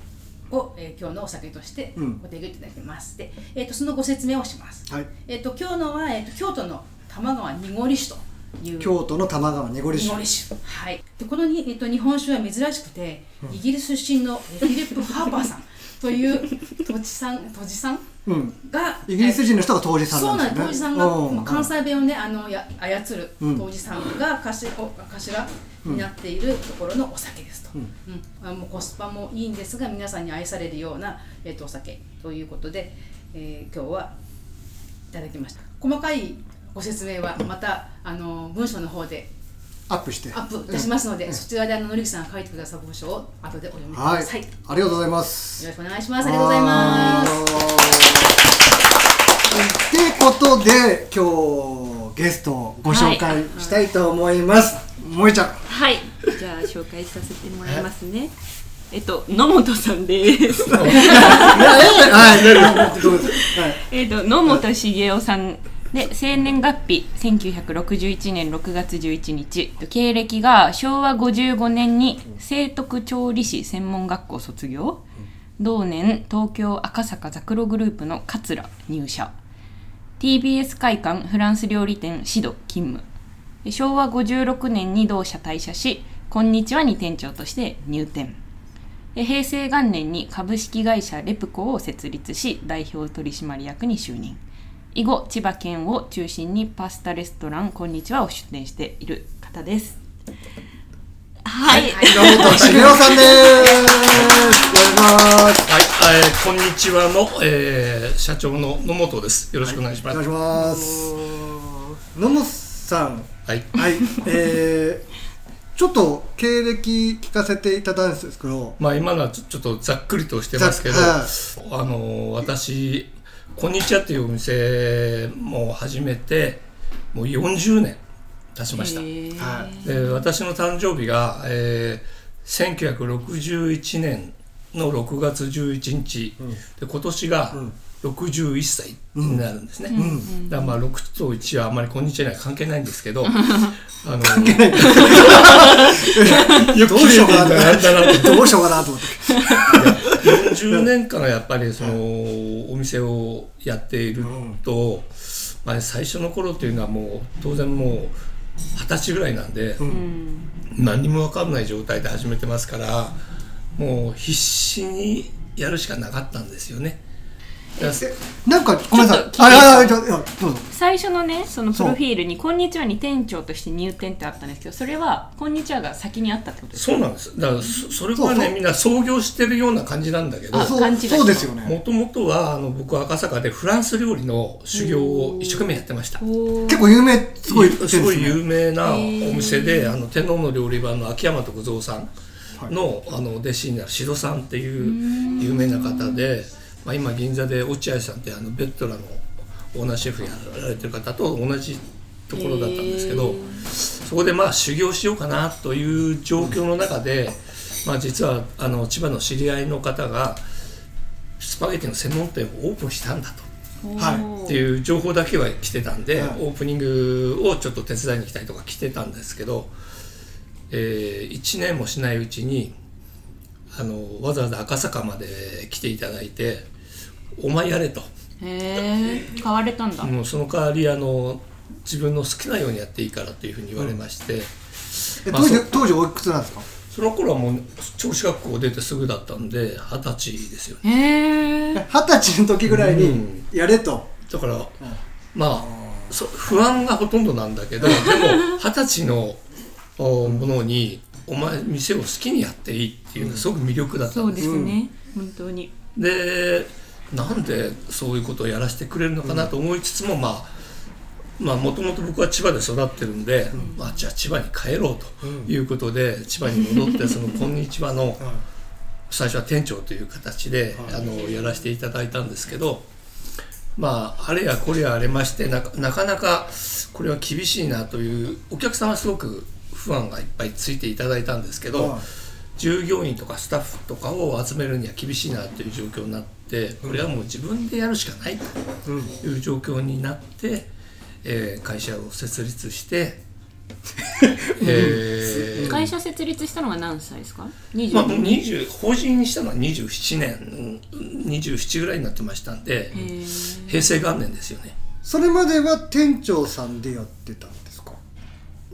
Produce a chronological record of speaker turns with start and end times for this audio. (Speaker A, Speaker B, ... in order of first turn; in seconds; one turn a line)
Speaker A: 0.5-8.9
Speaker B: 8.8-10.2
Speaker A: 9.9-18.1
Speaker B: 18.2-21.7
Speaker A: 18.7-34.1
Speaker A: 35.1-39.3
Speaker B: 39.9-41.4
Speaker A: 40.3-44.6
Speaker B: 43.9-48.4
Speaker A: 45.6-47.5
Speaker C: 46.7-47.4
Speaker B: 49.5-55.7
Speaker C: 52.9-53.9
Speaker C: 55.7-58.3
Speaker C: 58.9-75.0
Speaker D: 60.6-63.2
Speaker B: 60.8-63.8
Speaker C: 75.6-79.3
Speaker C: 80.2-83.0
Speaker C: 83.6-88.3
Speaker C: 89.1-94.4
Speaker C: 94.9-100.0
Speaker C: 101.4-105.0
Speaker A: 101.7-104.7
Speaker B: 101.7-105.7
Speaker D: 102.4-103.1
Speaker D: 105.6-110.2
Speaker B: 109.6-115.1
Speaker D: 113.5-113.7
Speaker B: 115.8-118.8
Speaker D: 118.8-128.0
Speaker B: 120.5-121.3
Speaker D: 128.5-129.1
Speaker C: 128.7-130.3
Speaker B: 129.4-129.7
Speaker D: 129.8-148.6
Speaker B: 139.1-140.3
Speaker C: 139.9-140.8
Speaker C: 143.4-143.7
Speaker B: 144.2-150.8
Speaker C: 149.3-149.7
Speaker D: 149.7-158.2
Speaker B: 154.2-154.6
Speaker D: 158.8-159.9
Speaker C: 159.8-160.5
Speaker D: 160.7-163.2
Speaker D: 163.8-167.0
Speaker D: 167.8-168.1
Speaker B: 167.9-170.7
Speaker C: 168.9-170.0
Speaker C: 170.7-176.9
Speaker D: 176.7-186.2
Speaker B: 178.2-178.5
Speaker C: 180.5-181.5
Speaker B: 180.5-181.7
Speaker C: 184.7-187.0
Speaker B: 186.7-188.4
Speaker D: 187.4-192.1
Speaker C: 188.8-190.0
Speaker D: 192.7-210.4
Speaker C: 194.8-196.2
Speaker C: 202.3-203.6
Speaker D: 211.4-213.5
Speaker C: 213.8-214.6
Speaker B: 214.0-214.2
Speaker D: 214.4-219.7
Speaker D: 220.7-222.7
Speaker D: 223.7-226.7
Speaker D: 227.4-228.1
Speaker C: 228.4-230.1
Speaker D: 230.0-235.7
Speaker B: 235.2-236.7
Speaker D: 236.9-240.8
Speaker C: 240.8-241.8
Speaker B: 241.7-244.1
Speaker D: 242.7-243.5
Speaker D: 244.3-244.8
Speaker D: 245.3-249.4
Speaker B: 245.6-246.1
Speaker C: 248.0-248.4
Speaker D: 250.0-254.6
Speaker B: 253.2-253.4
Speaker C: 254.1-255.7
Speaker B: 254.4-254.8
Speaker D: 255.9-260.5
Speaker B: 259.2-259.5
Speaker D: 261.4-268.3
Speaker C: 263.5-264.0
Speaker B: 265.2-265.5
Speaker D: 269.1-272.9
Speaker C: 270.9-271.6
Speaker D: 273.8-282.0
Speaker B: 281.7-282.0
Speaker D: 282.6-288.5
Speaker B: 288.8-289.1
Speaker D: 289.2-290.7
Speaker D: 291.2-293.2
Speaker B: 294.2-295.8
Speaker D: 294.6-295.8
Speaker C: 294.6-298.4
Speaker D: 297.9-303.0
Speaker C: 302.9-304.0
Speaker D: 303.6-304.7
Speaker B: 305.0-308.0